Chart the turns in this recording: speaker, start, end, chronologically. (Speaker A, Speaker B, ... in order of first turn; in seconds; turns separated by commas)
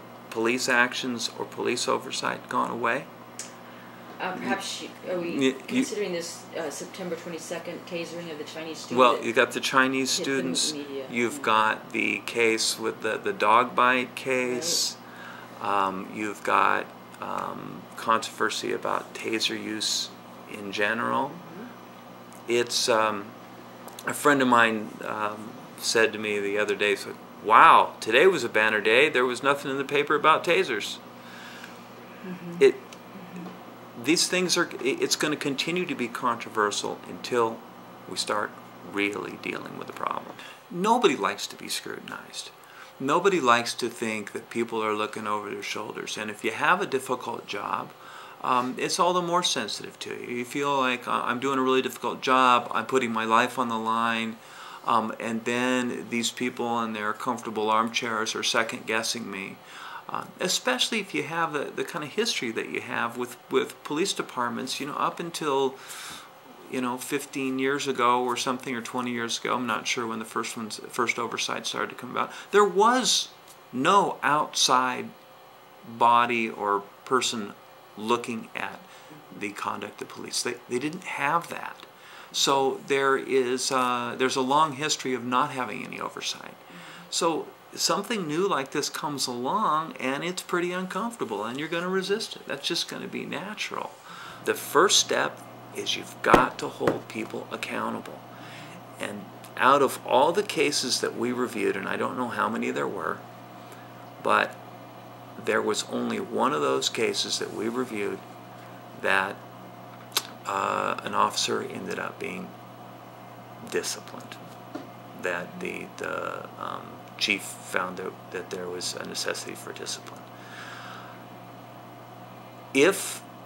Speaker A: 0.3-3.1, Speaker B: 4.2-9.3, Speaker A: 4.3-5.9, Speaker A: 8.9-15.0, Speaker B: 10.1-11.5, Speaker B: 14.5-14.8, Speaker A: 15.6-21.4, Speaker B: 21.4-21.7, Speaker A: 22.5-23.4, Speaker A: 24.0-31.0, Speaker B: 32.2-32.6, Speaker A: 32.6-32.9, Speaker B: 33.1-33.5, Speaker A: 33.9-75.1, Speaker A: 75.8-98.2, Speaker A: 99.0-103.2, Speaker A: 104.2-104.6, Speaker A: 105.3-108.2, Speaker A: 108.9-109.4, Speaker A: 110.4-112.5, Speaker A: 113.6-114.4, Speaker A: 115.1-120.2, Speaker A: 122.7-123.2